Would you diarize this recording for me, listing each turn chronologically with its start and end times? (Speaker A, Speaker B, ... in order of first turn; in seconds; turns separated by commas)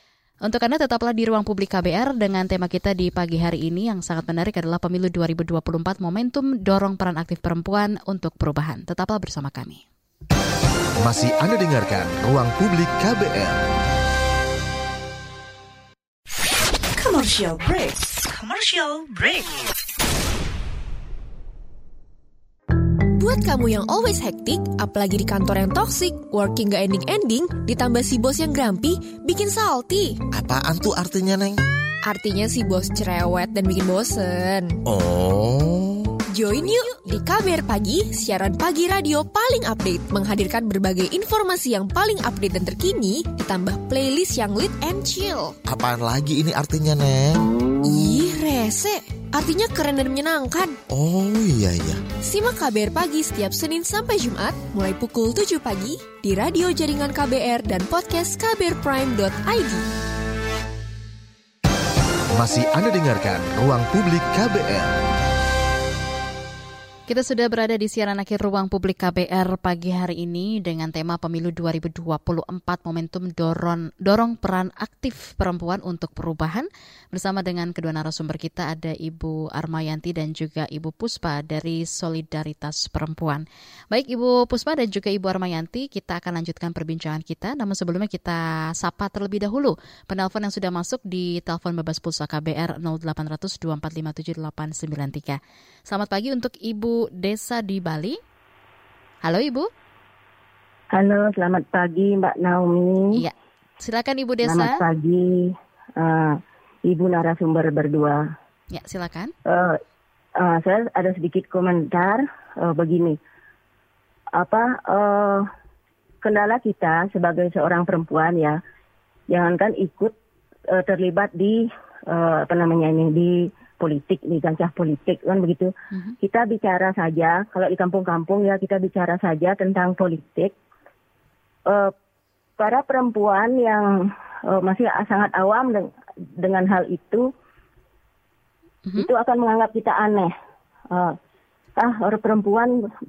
Speaker A: 0.4-9.8, Speaker B: 11.0-13.6, Speaker C: 16.9-19.6, Speaker D: 23.1-30.2, Speaker E: 30.3-31.6, Speaker D: 32.0-34.8, Speaker E: 34.9-36.1, Speaker D: 36.3-45.6, Speaker E: 45.6-47.5, Speaker D: 47.8-50.8, Speaker E: 50.9-52.0, Speaker D: 52.2-59.9, Speaker B: 62.3-65.0, Speaker A: 67.1-98.2, Speaker A: 99.2-99.7, Speaker F: 100.9-103.2, Speaker A: 103.1-104.8, Speaker F: 104.4-108.2, Speaker A: 108.7-109.3, Speaker F: 109.5-109.8, Speaker F: 110.4-113.2, Speaker F: 114.3-115.5, Speaker F: 116.2-118.6, Speaker F: 119.3-120.1, Speaker F: 120.7-130.5, Speaker F: 131.7-131.9, Speaker F: 132.6-133.9, Speaker F: 134.5-135.9, Speaker F: 136.4-137.3, Speaker F: 138.9-140.3, Speaker F: 141.8-142.7